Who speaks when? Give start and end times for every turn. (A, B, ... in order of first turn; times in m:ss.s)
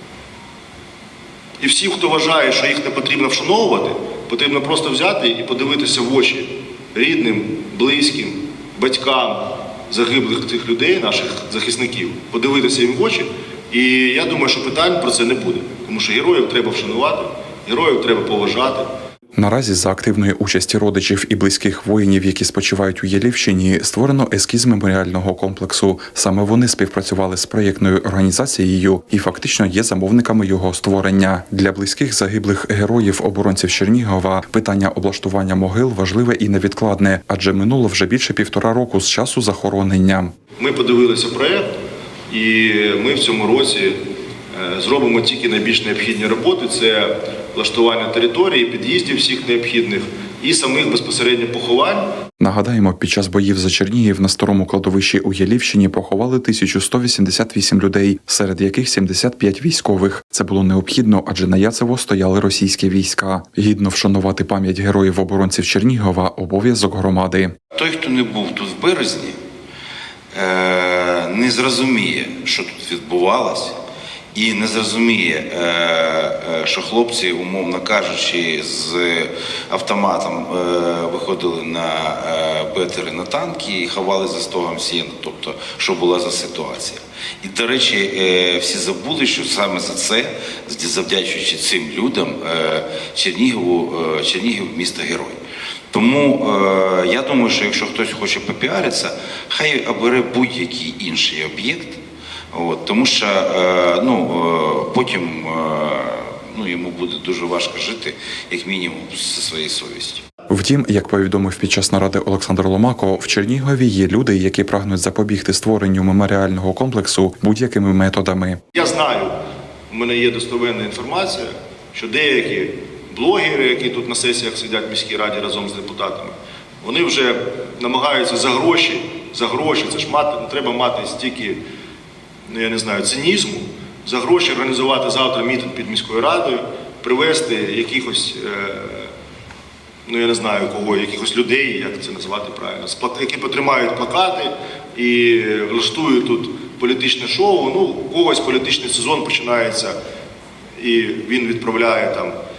0:01.6-0:18.9 A
0:19.4-0:40.3 B
0:40.6-0:41.7 A
0:42.3-0:44.0 A
0:44.5-0:52.1 A
0:52.4-1:07.5 B
1:07.7-1:09.4 C
1:10.3-1:13.8 C
1:14.3-1:35.4 C
1:35.9-1:42.0 C
1:42.5-1:50.2 C
1:50.5-1:58.6 B
1:58.7-1:59.3 A
1:59.9-2:11.6 A
2:12.5-2:19.1 A
2:20.0-2:30.0 A
2:30.8-2:32.3 A